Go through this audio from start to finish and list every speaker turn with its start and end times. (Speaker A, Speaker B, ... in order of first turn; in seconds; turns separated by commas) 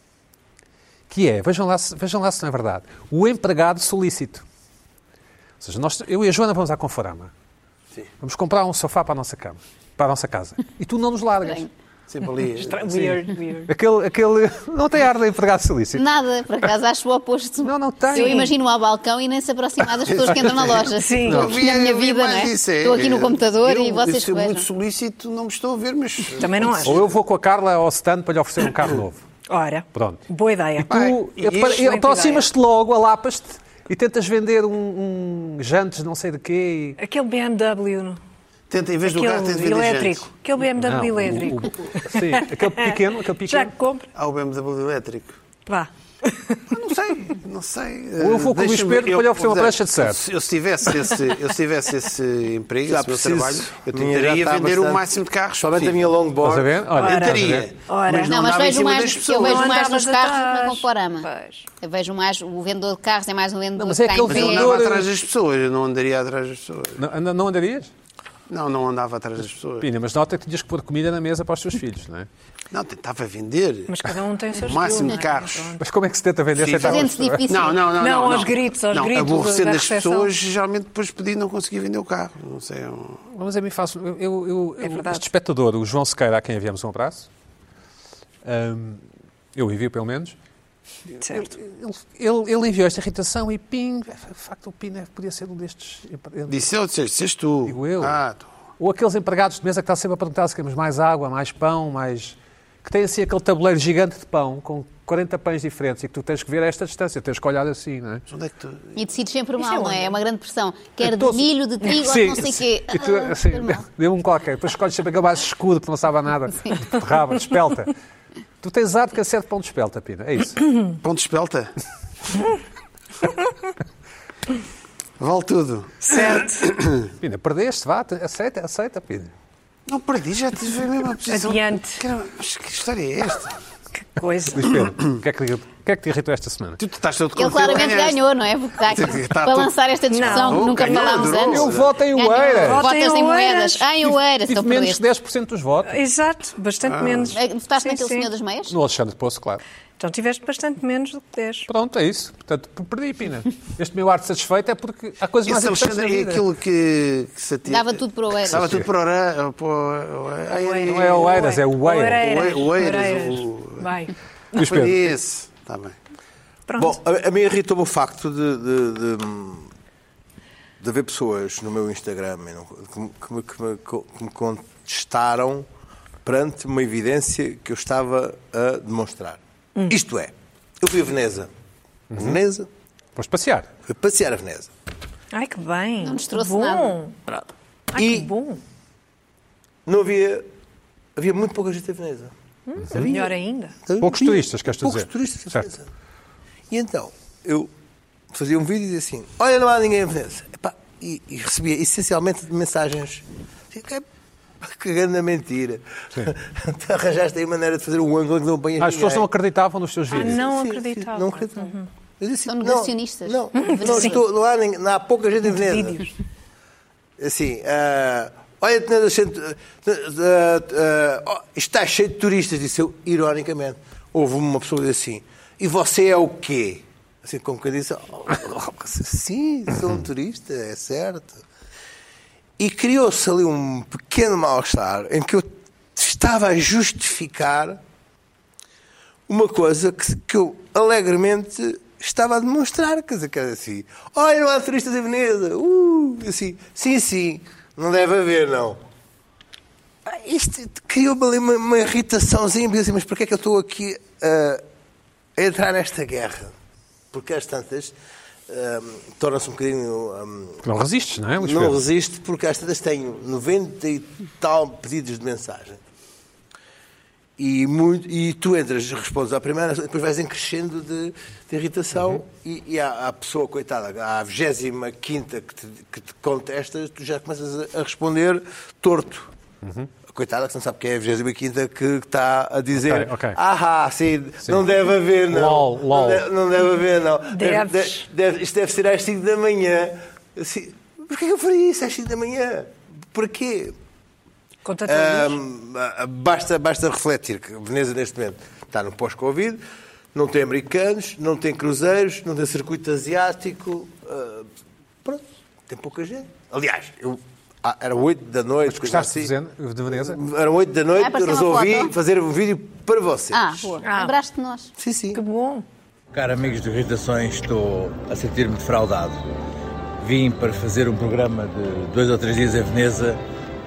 Speaker A: 1.1-4.4, Speaker A: 5.6-7.3, Speaker A: 8.2-11.7, Speaker B: 12.1-13.2, Speaker C: 12.6-13.7, Speaker A: 12.9-16.0, Speaker D: 15.9-24.6, Speaker A: 17.6-18.5, Speaker B: 20.1-27.1, Speaker C: 21.0-21.5, Speaker A: 21.2-21.5, Speaker C: 26.4-27.0, Speaker A: 26.8-29.2, Speaker C: 29.5-30.9, Speaker A: 29.9-30.2, Speaker A: 30.7-37.0, Speaker B: 30.9-31.9, Speaker C: 31.8-32.5, Speaker C: 37.0-38.2, Speaker B: 38.7-40.3, Speaker C: 39.0-44.1, Speaker A: 40.8-43.7, Speaker B: 44.1-45.4, Speaker C: 45.6-46.8, Speaker B: 46.7-56.1, Speaker A: 48.2-50.2, Speaker E: 52.9-55.0, Speaker E: 55.6-56.8, Speaker A: 56.4-57.7, Speaker C: 56.9-58.4, Speaker B: 57.0-59.9, Speaker D: 58.3-61.3, Speaker C: 59.4-61.6, Speaker D: 61.8-64.7, Speaker A: 63.8-65.1, Speaker B: 64.3-67.0, Speaker A: 67.0-67.9, Speaker B: 68.5-69.9, Speaker A: 69.8-72.3, Speaker B: 72.7-74.0, Speaker C: 73.9-75.8, Speaker B: 74.5-75.8, Speaker A: 75.8-77.5, Speaker B: 76.5-83.2, Speaker D: 76.7-77.9, Speaker C: 78.0-80.3, Speaker A: 83.3-87.3, Speaker C: 84.8-85.2, Speaker A: 88.4-89.0, Speaker A: 89.5-90.3, Speaker C: 91.2-91.5, Speaker A: 91.2-96.6, Speaker B: 96.5-98.5, Speaker A: 97.7-98.2, Speaker A: 98.8-108.2, Speaker B: 108.3-108.9, Speaker D: 108.9-113.8, Speaker C: 109.6-110.1, Speaker A: 111.0-117.9, Speaker A: 118.6-120.6, Speaker B: 121.0-121.7, Speaker B: 125.2-127.0, Speaker C: 126.0-126.7, Speaker A: 127.2-129.3, Speaker B: 129.9-133.6, Speaker C: 131.3-132.0, Speaker C: 134.2-134.8, Speaker A: 134.5-136.8, Speaker B: 136.8-138.2, Speaker D: 137.3-145.0, Speaker B: 138.8-141.9, Speaker C: 140.1-141.3, Speaker A: 141.4-142.8, Speaker C: 142.5-144.1, Speaker A: 144.5-146.0, Speaker C: 145.8-148.3, Speaker B: 146.8-147.4, Speaker D: 147.3-148.7, Speaker A: 148.7-149.6, Speaker C: 150.0-151.7, Speaker A: 151.7-156.4, Speaker B: 155.4-161.4, Speaker D: 157.7-158.8, Speaker A: 158.5-158.9, Speaker C: 160.5-164.1, Speaker A: 160.8-162.2, Speaker B: 162.2-163.9, Speaker A: 164.5-165.0, Speaker B: 164.6-166.0, Speaker C: 166.7-166.9, Speaker E: 166.8-169.7, Speaker E: 170.8-175.7, Speaker E: 176.2-181.5, Speaker A: 182.1-182.4, Speaker E: 182.1-182.7, Speaker A: 183.2-183.7, Speaker E: 183.8-184.7, Speaker C: 185.3-187.2, Speaker D: 186.0-187.0, Speaker C: 187.9-188.6, Speaker E: 187.9-188.3, Speaker E: 189.8-190.5, Speaker E: 191.2-192.3, Speaker C: 192.7-193.7, Speaker E: 192.9-193.3, Speaker E: 193.9-195.9, Speaker A: 194.0-195.7, Speaker E: 196.7-197.7, Speaker E: 198.3-204.1, Speaker E: 204.6-209.3, Speaker A: 208.8-210.4, Speaker C: 210.1-211.8, Speaker E: 210.2-216.1, Speaker D: 212.5-214.2, Speaker C: 213.6-214.2, Speaker E: 217.2-231.4, Speaker E: 232.6-237.8, Speaker E: 239.3-248.8, Speaker E: 250.0-254.6, Speaker E: 255.3-256.5, Speaker E: 257.1-257.9, Speaker E: 258.5-260.6, Speaker A: 260.6-261.8, Speaker E: 261.4-265.8, Speaker E: 267.4-279.3, Speaker A: 279.6-279.9, Speaker E: 280.1-293.7, Speaker A: 282.8-283.4, Speaker A: 285.3-286.2, Speaker C: 287.3-288.0, Speaker C: 294.6-295.4, Speaker E: 294.9-299.6, Speaker E: 300.1-304.5, Speaker E: 305.0-309.3, Speaker A: 308.7-310.2, Speaker E: 309.9-313.7, Speaker D: 311.0-311.9, Speaker D: 313.3-314.7, Speaker C: 313.8-314.1, Speaker E: 314.8-315.2, Speaker C: 315.1-315.6, Speaker F: 316.1-319.2, Speaker F: 320.0-323.2